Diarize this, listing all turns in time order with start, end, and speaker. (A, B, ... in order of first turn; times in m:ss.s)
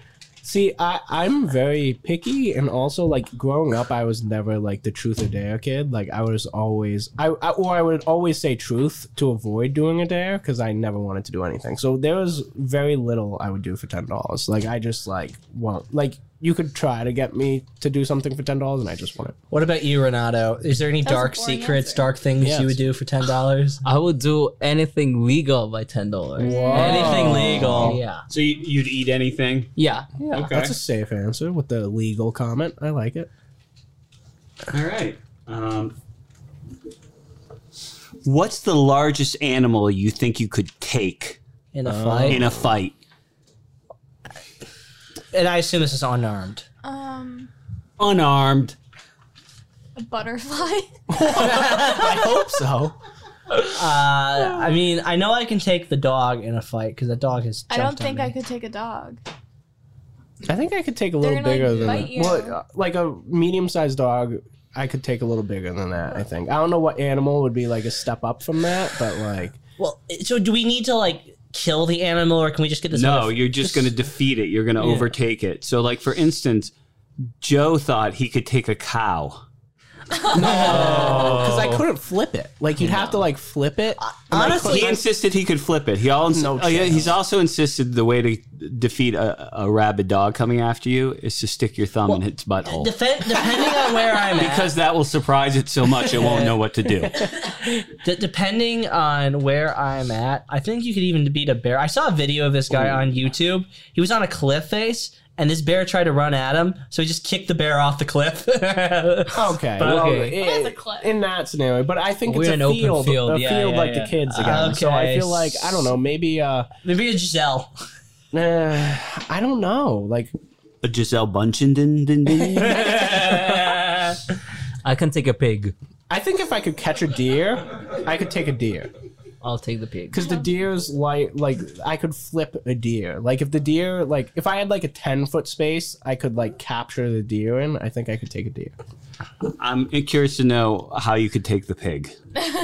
0:00.4-0:19.4 A
0:19.5-0:23.8 B
0:21.0-0:22.1 C
0:22.4-0:22.8 A
0:23.8-0:28.0 D
0:26.4-0:28.0 A
0:26.4-0:27.4 C
0:26.7-0:28.2 B
0:28.3-0:29.7 E
0:29.8-0:30.1 D
0:30.2-0:33.3 A
0:30.3-0:30.8 E
0:34.7-0:36.0 E
0:38.2-0:41.4 E
0:41.7-0:42.4 B
0:41.8-0:42.7 A
0:42.3-0:42.9 E
0:45.3-0:46.6 B
0:46.8-0:47.5 C
0:48.0-0:48.8 E
0:50.0-0:51.6 C
0:51.1-0:53.0 A
0:51.3-0:52.2 B
0:53.7-0:58.3 B
0:57.7-0:59.2 C
1:00.5-1:09.6 A
1:01.2-1:02.5 C
1:09.8-1:13.4 B
1:12.9-1:16.7 E
1:17.4-1:19.4 E
1:20.3-1:24.9 A
1:20.4-1:21.8 D
1:20.7-1:21.2 B
1:24.0-1:25.0 B
1:24.3-1:32.9 E
1:26.3-1:27.2 A
1:32.0-1:34.7 B
1:34.3-1:37.1 E
1:36.2-1:36.5 B
1:37.9-1:50.0 B
1:49.3-1:56.7 A
1:49.8-1:50.4 D
1:50.4-1:51.1 C
1:52.3-1:54.6 D
1:54.3-1:55.9 B
1:56.8-1:57.7 B
1:58.3-2:00.3 A
2:00.8-2:03.0 E
2:02.7-2:03.6 B
2:03.3-2:03.8 D
2:04.8-2:05.7 D
2:06.1-2:08.9 A
2:09.4-2:10.3 D
2:10.1-2:18.7 A
2:19.4-2:22.1 E